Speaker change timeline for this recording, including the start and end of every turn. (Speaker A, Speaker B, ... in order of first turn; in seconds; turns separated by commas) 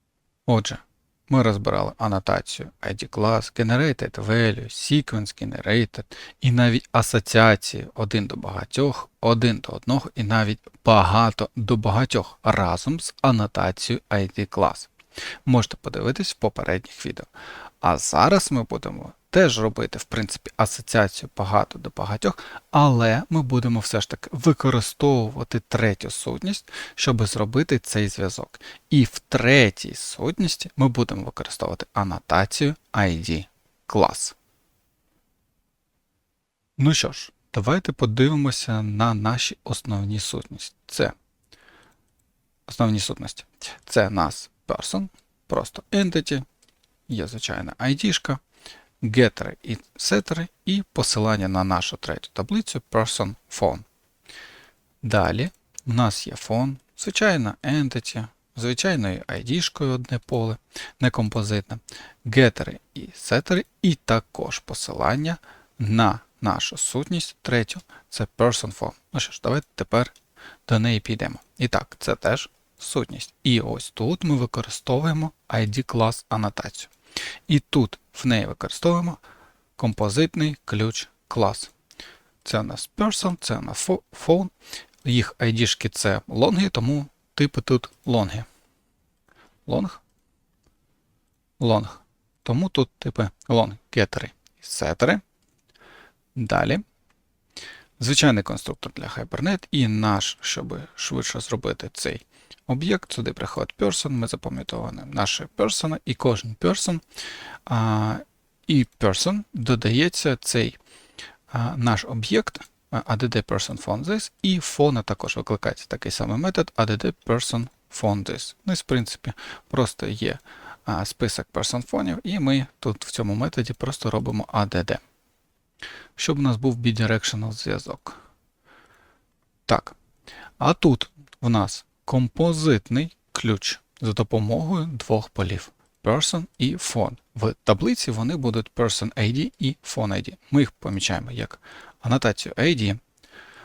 Speaker A: 0.5-14.9, Speaker A: 15.4-17.3, Speaker A: 17.8-34.4, Speaker A: 36.8-41.1, Speaker A: 42.7-46.5, Speaker A: 47.1-48.4, Speaker A: 49.0-53.9, Speaker A: 55.0-70.1, Speaker A: 70.7-76.9, Speaker A: 77.5-79.2, Speaker A: 79.8-81.7, Speaker A: 82.4-84.5, Speaker A: 85.0-88.5, Speaker A: 89.7-90.0, Speaker A: 91.6-95.2, Speaker A: 96.3-96.8, Speaker A: 98.0-107.0, Speaker A: 107.7-110.8, Speaker A: 111.5-125.0, Speaker A: 126.2-128.2, Speaker A: 129.7-130.0, Speaker A: 130.6-143.0